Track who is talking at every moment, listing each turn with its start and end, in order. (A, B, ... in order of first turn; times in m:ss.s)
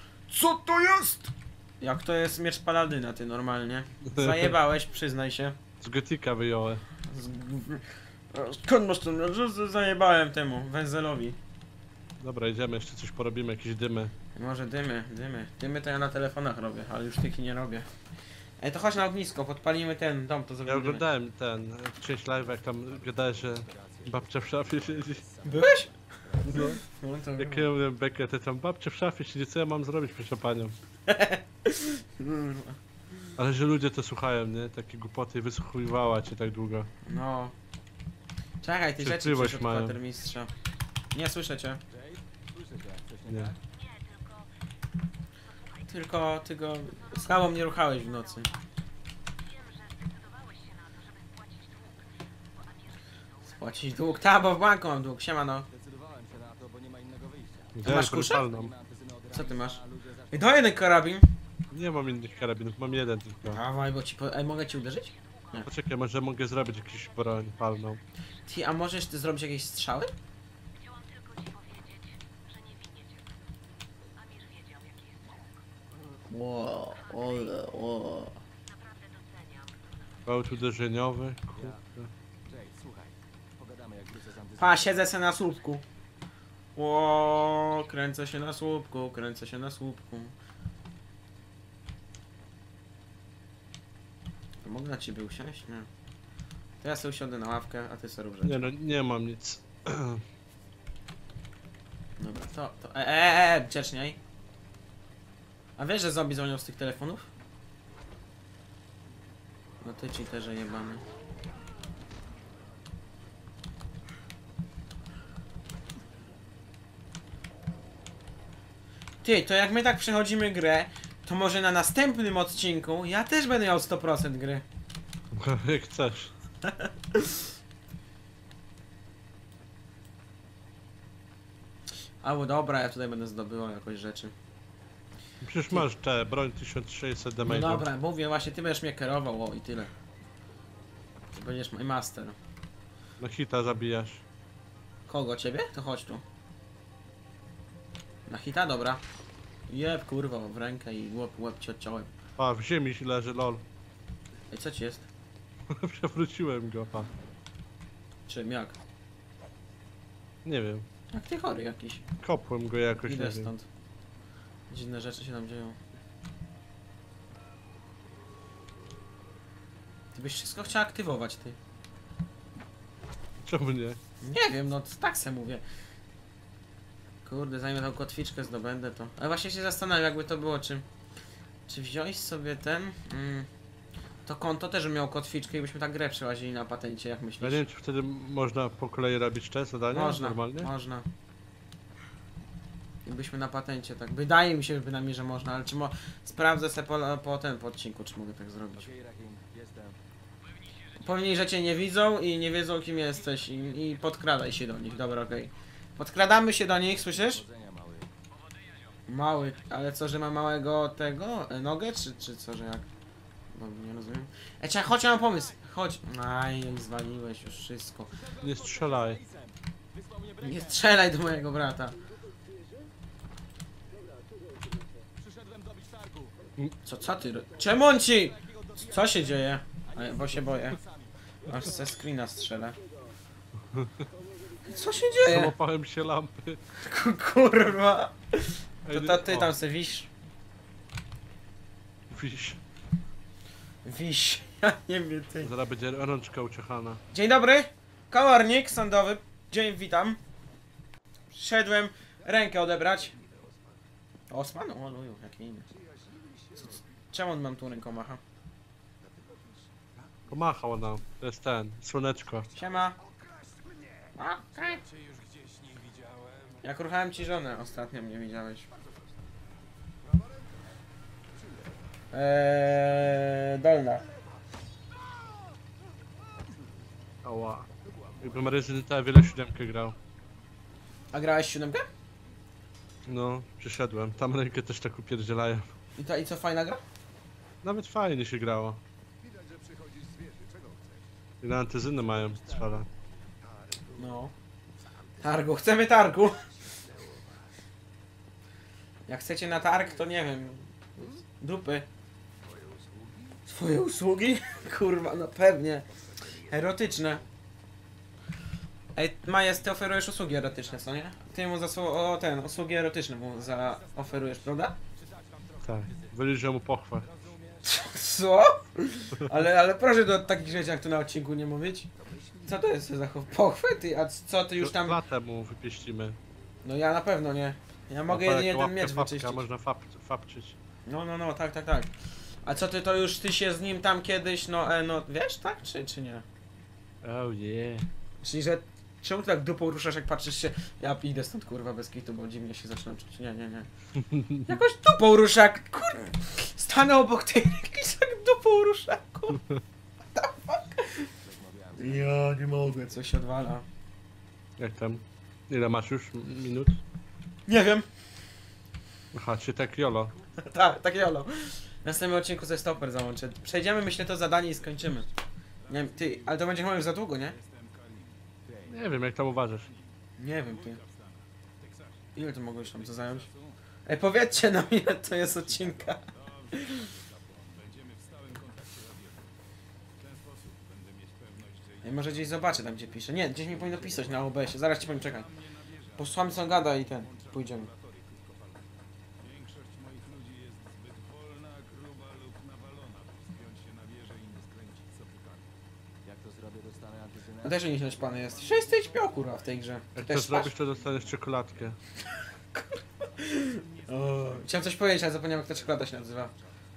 0:00.3-0:05.6 A
0:04.0-0:04.5 B
0:05.8-0:06.8 B
0:07.0-0:11.4 A
0:12.2-0:14.1 B
0:14.3-0:17.9 A
0:18.6-0:21.0 A
0:20.6-0:25.2 B
0:22.3-0:26.8 C
0:25.4-0:25.9 A
0:26.4-0:27.7 A
0:26.5-0:26.8 B
0:27.4-0:30.8 B
0:31.1-0:32.8 A
0:33.4-0:36.9 B
0:37.0-0:37.5 A
0:38.6-0:40.5 A
0:39.0-0:40.0 B
0:40.2-0:40.6 D
0:41.1-0:41.8 A
0:41.9-0:43.6 C
0:43.6-0:44.6 D
0:45.4-0:46.2 D
0:45.9-0:48.5 A
0:46.8-0:48.6 D
0:49.3-0:53.8 D
0:53.4-0:55.7 A
0:55.7-1:00.6 C
0:57.7-0:58.7 B
0:57.8-0:58.4 A
0:59.3-0:59.8 A
1:00.3-1:01.3 A
1:01.7-1:03.6 B
1:01.8-1:03.8 D
1:03.4-1:05.7 A
1:04.4-1:05.7 D
1:05.6-1:08.0 B
1:06.5-1:08.0 D
1:08.5-1:10.1 A
1:10.7-1:13.5 D
1:14.1-1:15.6 D
1:16.3-1:18.4 A
1:16.8-1:17.7 D
1:18.6-1:20.6 D
1:20.2-1:22.1 B
1:21.5-1:21.8 C
1:22.4-1:25.0 C
1:24.6-1:25.8 A
1:26.8-1:30.3 A
1:34.6-1:35.9 A
1:36.8-1:38.7 A
1:38.4-1:40.2 B
1:42.2-1:44.2 A
1:45.8-1:47.3 A
1:49.8-1:51.0 A
1:59.2-2:04.6 A
2:05.3-2:06.3 B
2:06.6-2:07.4 A
2:12.2-2:14.3 A
2:15.4-2:17.9 B
2:17.4-2:19.9 A
2:21.3-2:22.4 A
2:23.2-2:24.2 B
2:25.1-2:26.2 A
2:28.3-2:29.0 A
2:29.7-2:32.1 A
2:32.4-2:33.6 B
2:34.5-2:35.1 A
2:35.7-2:37.1 B
2:38.3-2:38.7 A
2:40.4-2:40.8 B
2:41.1-2:42.0 A
2:42.2-2:43.5 B
2:43.0-2:43.6 A
2:44.7-2:45.8 A
2:50.1-2:51.6 A
2:53.4-2:54.0 B
2:54.2-2:55.6 A
2:57.2-3:00.8 A
3:01.7-3:03.5 A
3:04.2-3:07.6 A
3:07.4-3:10.7 B
3:09.9-3:11.0 A
3:13.0-3:18.9 A
3:18.8-3:20.0 C
3:21.0-3:27.4 A
3:27.0-3:28.1 C
3:29.1-3:32.8 A
3:33.5-3:38.1 A
3:38.1-3:41.0 C
3:38.4-3:39.2 B
3:40.4-3:42.0 A
3:45.1-3:46.4 C
3:46.8-3:50.8 A
3:48.0-3:51.1 C
3:51.4-3:52.8 A
3:53.7-3:54.0 B
3:54.6-3:55.5 A
3:55.2-3:56.6 B
3:56.8-4:00.1 A
3:58.8-3:59.5 B
4:02.1-4:02.6 B
4:03.8-4:05.5 A
4:05.4-4:07.0 B
4:07.1-4:10.2 A
4:11.3-4:13.1 A
4:13.2-4:13.6 C
4:14.3-4:15.7 A
4:16.1-4:16.7 C
4:16.6-4:18.2 A
4:19.0-4:20.2 C
4:20.3-4:22.5 B
4:22.6-4:23.0 A
4:23.0-4:24.1 C
4:24.2-4:24.8 A
4:24.7-4:26.6 C
4:26.6-4:28.7 A
4:32.1-4:34.0 A
4:37.2-4:37.7 B
4:38.2-4:40.0 B
4:41.1-4:41.9 A
4:43.0-4:45.7 B
4:46.0-4:46.8 A
4:47.6-4:48.8 B
4:49.2-4:51.0 C
4:51.4-4:52.9 B
4:52.1-4:54.1 C
4:54.0-4:54.3 A
4:55.2-4:56.5 A
4:56.7-4:57.2 C
4:59.1-5:01.9 A
5:02.4-5:03.4 C
5:03.4-5:05.9 A
5:06.5-5:07.2 A
5:08.9-5:14.8 A
5:13.4-5:16.3 C
5:15.6-5:17.1 B
5:17.0-5:17.8 C
5:17.6-5:21.9 A
5:22.0-5:22.5 C
5:22.4-5:25.0 A
5:24.6-5:26.2 B
5:26.6-5:29.4 A
5:28.1-5:30.6 B
5:30.8-5:31.9 A
5:32.4-5:36.2 A
5:37.0-5:37.9 B
5:38.2-5:43.7 A
5:44.0-5:44.5 B
5:44.4-5:49.4 A
5:50.1-5:51.1 A
5:51.1-5:52.2 C
5:51.8-5:53.6 A
5:54.6-5:56.8 B
5:57.5-5:57.8 A
5:59.1-6:00.1 B
6:00.4-6:05.1 A
6:04.6-6:05.0 C
6:05.6-6:06.6 C
6:05.7-6:07.4 A
6:07.3-6:08.8 C
6:08.7-6:09.7 B
6:09.4-6:09.9 C
6:10.2-6:10.8 A
6:10.4-6:12.1 C
6:12.2-6:13.3 A
6:12.7-6:13.5 C
6:13.8-6:16.9 A
6:15.4-6:19.3 C
6:20.0-6:21.9 C
6:21.8-6:25.3 A
6:23.5-6:24.3 C
6:24.9-6:35.5 C
6:26.0-6:27.7 A
6:36.0-6:39.4 C
6:37.4-6:40.5 A
6:40.0-6:41.8 B
6:40.6-6:41.4 C
6:42.5-6:46.3 A
6:43.5-6:44.5 C
6:45.9-6:46.4 C